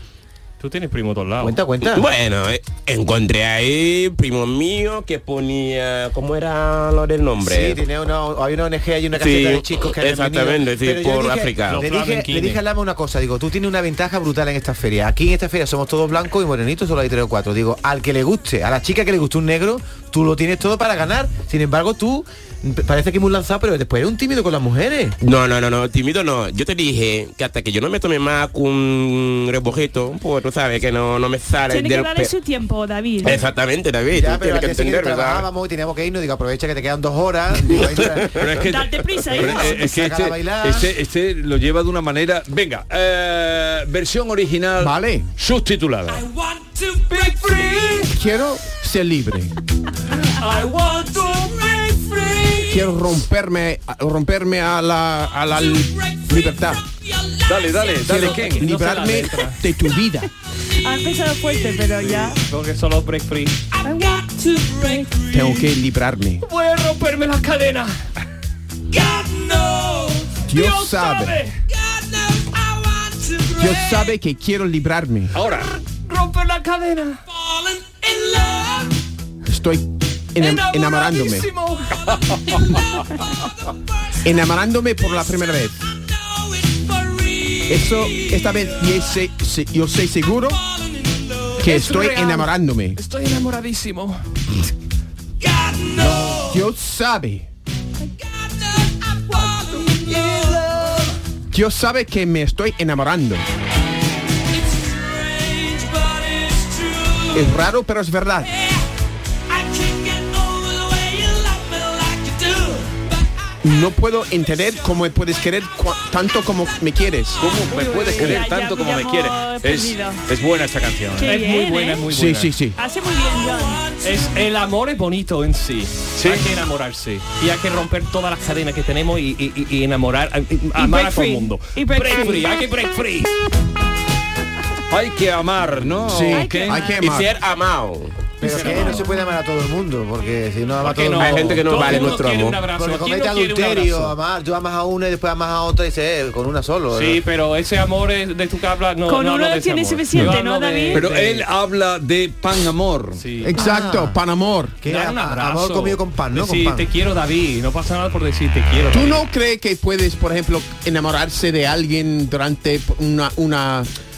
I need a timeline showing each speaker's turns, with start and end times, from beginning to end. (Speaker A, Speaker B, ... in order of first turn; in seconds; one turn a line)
Speaker A: 0.6-1.6
Speaker B: 1.4-2.1
Speaker C: 1.8-7.8
Speaker B: 7.4-25.2
Speaker C: 9.2-11.8
Speaker A: 11.7-12.6
Speaker C: 25.2-32.3
Speaker D: 31.7-33.4
Speaker C: 33.2-35.5
Speaker B: 34.1-38.4
Speaker C: 37.7-38.5
Speaker E: 38.4-46.2
Speaker D: 38.6-39.9
Speaker B: 39.4-40.9
Speaker F: 44.8-45.3
Speaker A: 46.6-48.1
Speaker F: 48.0-49.5
Speaker A: 50.2-52.8
Speaker F: 52.7-56.8
Speaker E: 57.5-58.7
Speaker F: 58.1-60.3
Speaker A: 58.1-59.6
Speaker D: 60.8-62.4
Speaker A: 62.0-63.8
Speaker D: 63.8-65.2
Speaker A: 64.5-65.7
Speaker F: 65.3-66.4
Speaker A: 66.4-68.0
Speaker A: 68.9-71.6
Speaker F: 70.5-71.4
Speaker A: 73.1-74.0
Speaker F: 73.6-75.3
Speaker E: 75.3-75.7
Speaker A: 76.1-77.2
Speaker A: 77.8-78.9
Speaker F: 79.5-81.5
Speaker A: 80.4-82.8
Speaker F: 84.2-85.8
Speaker F: 87.7-90.6
Speaker A: 91.5-94.2
Speaker F: 91.6-93.0
Speaker A: 95.6-96.5
Speaker F: 96.0-97.5
Speaker A: 99.3-101.1
Speaker F: 101.5-103.5
Speaker F: 107.3-108.5
Speaker F: 113.6-117.5
Speaker E: 117.4-121.3
Speaker D: 117.6-120.2
Speaker D: 121.2-122.1
Speaker A: 121.2-122.5
Speaker F: 122.1-122.8
Speaker D: 122.8-123.9
Speaker A: 123.9-133.3
Speaker E: 126.2-126.5
Speaker D: 130.8-132.6
Speaker E: 134.9-136.9
Speaker F: 136.1-137.3
Speaker D: 136.3-137.2
Speaker C: 137.0-138.2
Speaker B: 138.4-147.2
Speaker A: 138.4-139.0
Speaker D: 138.6-139.0
Speaker A: 140.8-144.2
Speaker C: 141.2-142.6
Speaker A: 146.9-151.5
Speaker D: 149.1-151.1
Speaker E: 150.9-153.2
Speaker A: 153.2-153.6
Speaker F: 153.4-154.8
Speaker B: 153.6-154.2
Speaker B: 154.8-156.9
Speaker A: 154.8-159.2
Speaker F: 158.9-163.9